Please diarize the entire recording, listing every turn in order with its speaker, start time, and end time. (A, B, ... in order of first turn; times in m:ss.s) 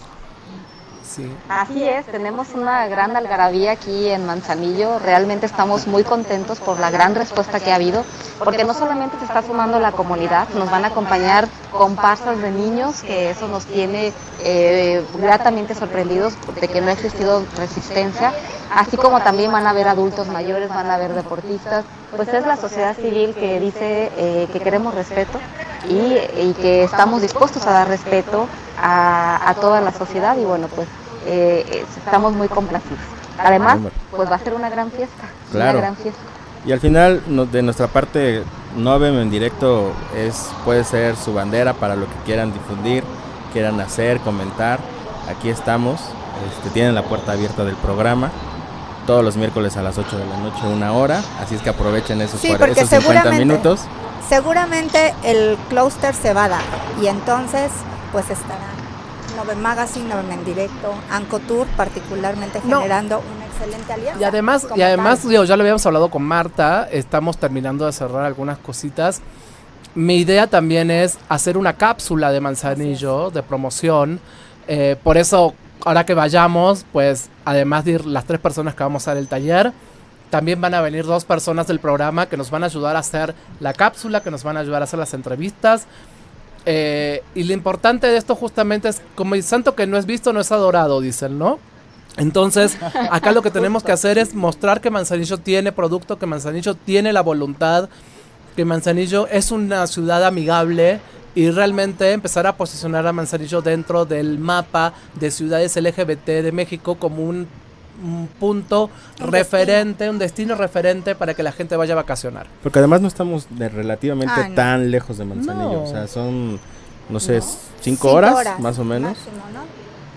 0:01.0-0:01.4 A
0:01.5-0:36.3 B
0:33.6-0:34.0 C
0:35.5-0:35.9 C
0:36.6-0:48.4 C
0:49.1-0:53.9 C
0:52.4-0:53.6 D
0:54.2-1:05.3 D
1:02.6-1:02.9 A
1:04.2-1:09.2 A
1:10.0-1:19.7 A
1:12.7-1:13.1 D
1:20.3-1:25.9 A
1:26.7-1:31.6 A
1:32.2-1:37.9 A
1:33.6-1:33.9 B
1:38.6-1:52.5 A
1:49.2-1:49.9 D
1:52.6-1:59.2 C
1:54.2-1:54.7 D
1:55.4-1:56.0 A
1:57.2-1:57.6 B
1:57.9-1:59.7 D